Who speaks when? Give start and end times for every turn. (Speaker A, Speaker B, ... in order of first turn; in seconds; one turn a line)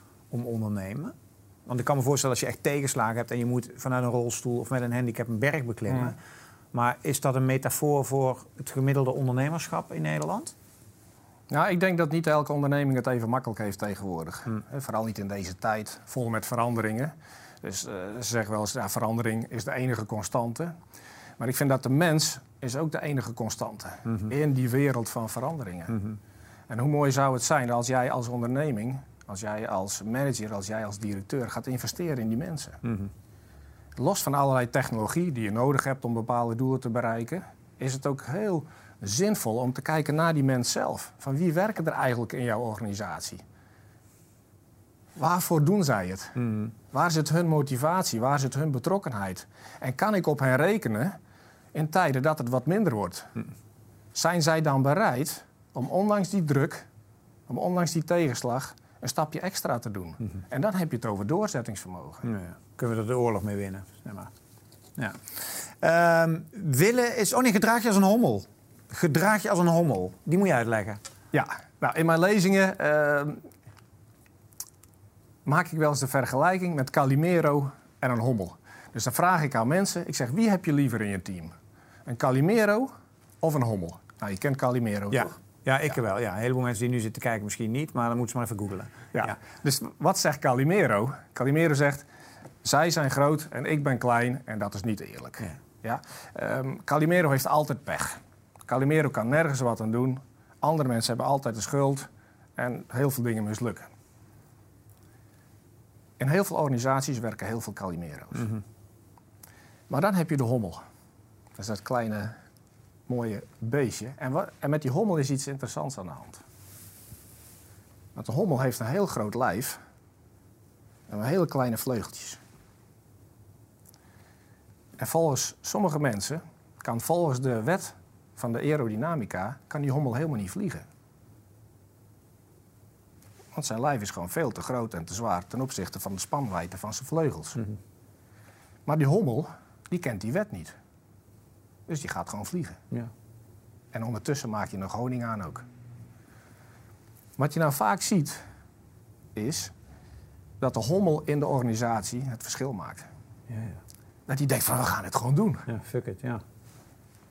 Speaker A: 0.3-1.1
Speaker A: 1.7-6.2
Speaker B: 5.9-6.1
Speaker A: 6.7-10.5
Speaker B: 11.5-20.7
Speaker B: 21.4-26.1
Speaker B: 26.7-32.8
Speaker B: 34.0-43.4
Speaker B: 45.1-51.2
Speaker B: 51.7-53.3
Speaker B: 54.1-56.8
Speaker B: 57.5-62.2
Speaker A: 62.2-64.3
Speaker A: 65.8-71.0
Speaker B: 71.3-73.4
Speaker B: 75.4-81.5
Speaker B: 82.0-82.9
Speaker B: 83.4-85.3
Speaker A: 85.1-89.4
Speaker B: 89.1-92.0
Speaker B: 92.6-103.9
Speaker B: 106.2-108.5
Speaker B: 109.9-110.8
Speaker B: 111.6-112.3
Speaker B: 113.1-116.4
Speaker B: 118.1-119.8
Speaker B: 121.1-122.4
Speaker B: 125.0-130.8
Speaker B: 133.5-137.6
Speaker B: 138.8-140.7
Speaker B: 141.9-142.8
Speaker B: 143.9-145.6
Speaker B: 147.4-148.4
Speaker B: 149.3-149.7
Speaker B: 150.6-153.1
Speaker A: 153.5-153.8
Speaker B: 154.3-155.6
Speaker A: 155.7-156.4